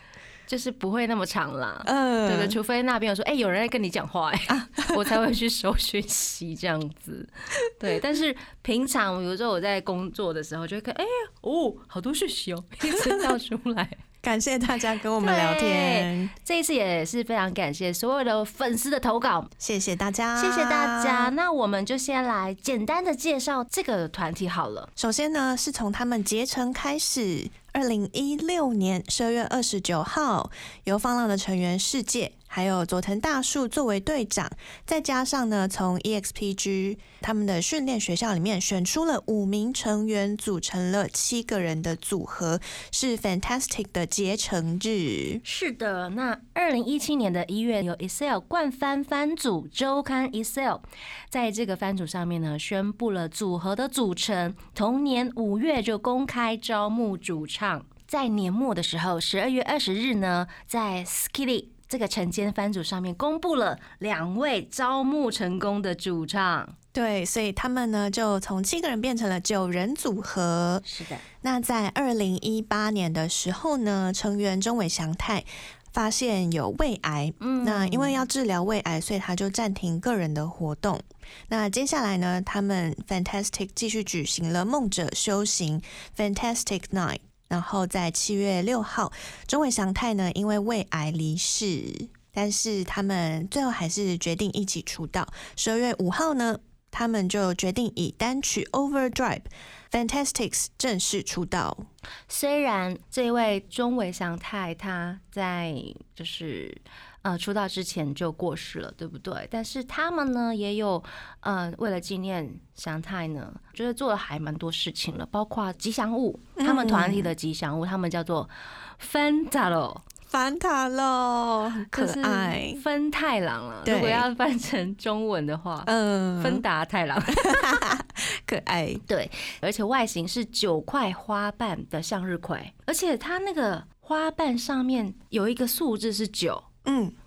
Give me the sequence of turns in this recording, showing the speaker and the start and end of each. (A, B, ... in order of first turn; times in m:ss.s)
0:00.5-0:14.0 A
0:01.8-0:02.6 B
0:04.5-0:05.1 B
0:13.0-0:13.3 B
0:14.2-0:16.3 B
0:15.2-0:19.5 A
0:19.6-0:21.3 B
0:20.4-0:24.9 A
0:25.0-0:45.4 B
0:45.4-1:06.7 A
1:06.9-1:10.9 B
1:10.8-1:11.2 A
1:11.4-1:41.9 B
1:17.4-1:18.2 A
1:42.3-2:00.0 A
1:56.6-1:57.3 B
2:00.3-2:02.8 B
2:01.9-2:07.7 A
2:03.8-2:04.3 B
2:05.8-2:06.6 B
2:07.3-2:09.0 B
2:09.1-2:16.7 A
2:16.8-2:17.1 B